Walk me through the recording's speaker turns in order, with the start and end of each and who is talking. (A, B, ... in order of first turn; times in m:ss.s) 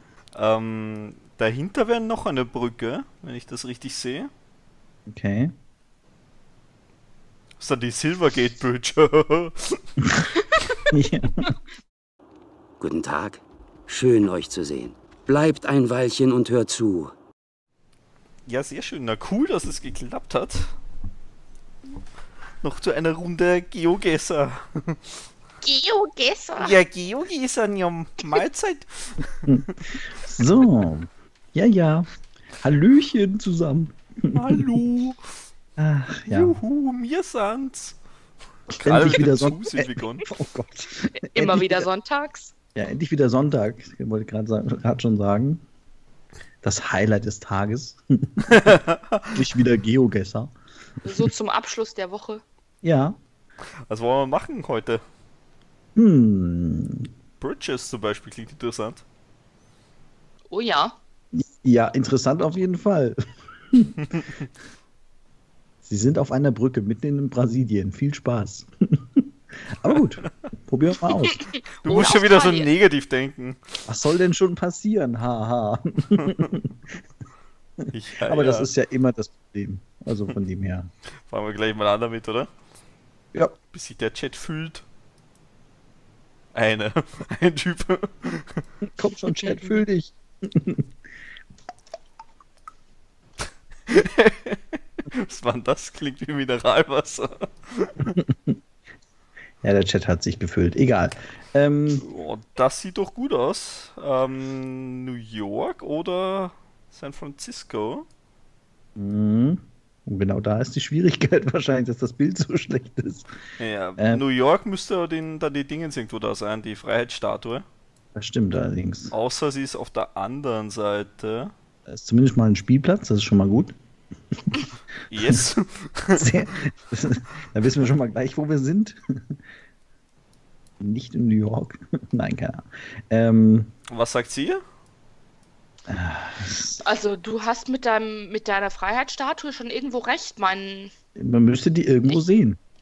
0:00.3-0:04.3 A
0:05.1-0:05.5 B
0:07.6-0:09.8 A
0:10.9-0:11.5 B
0:12.8-0:17.1 C
0:18.4-0:20.7 A
0:22.6-0:25.0 A
0:25.6-0:26.8 D
0:26.6-0:30.0 A
0:29.5-0:32.1 B
0:32.6-0:34.7 B
0:34.3-0:35.2 A
0:35.8-0:36.6 B
0:36.3-0:38.0 A
0:38.7-0:40.3 A
0:38.8-0:41.9 B
0:41.1-0:42.5 D
0:42.7-0:45.6 B
0:46.6-0:48.0 B
0:48.5-0:49.2 A
0:49.3-0:51.3 B
0:51.0-0:52.4 D
0:52.8-0:53.2 B
0:53.9-0:55.0 A
0:56.0-0:57.1 B
0:57.4-0:59.0 A
1:00.5-1:01.0 D
1:01.3-1:03.2 B
1:05.8-1:11.4 B
1:11.7-1:12.7 D
1:11.7-1:13.9 A
1:13.9-1:16.7 B
1:17.8-1:20.9 B
1:17.9-1:18.7 A
1:21.3-1:22.5 A
1:23.7-1:24.8 A
1:26.5-1:28.6 A
1:29.0-1:30.8 B
1:29.3-1:29.8 D
1:33.9-1:38.1 A
1:38.2-1:38.6 B
1:39.6-1:42.0 B
1:41.9-1:48.0 A
1:49.0-1:53.3 B
1:53.6-1:57.6 A
1:54.0-1:54.2 B
1:58.1-1:59.1 B
1:59.1-2:01.5 A
2:01.9-2:03.8 B
2:05.1-2:06.3 A
2:05.2-2:05.4 B
2:06.2-2:09.4 B
2:10.8-2:13.7 B
2:13.9-2:14.6 A
2:15.9-2:16.8 B
2:16.8-2:20.9 D
2:21.2-2:22.6 B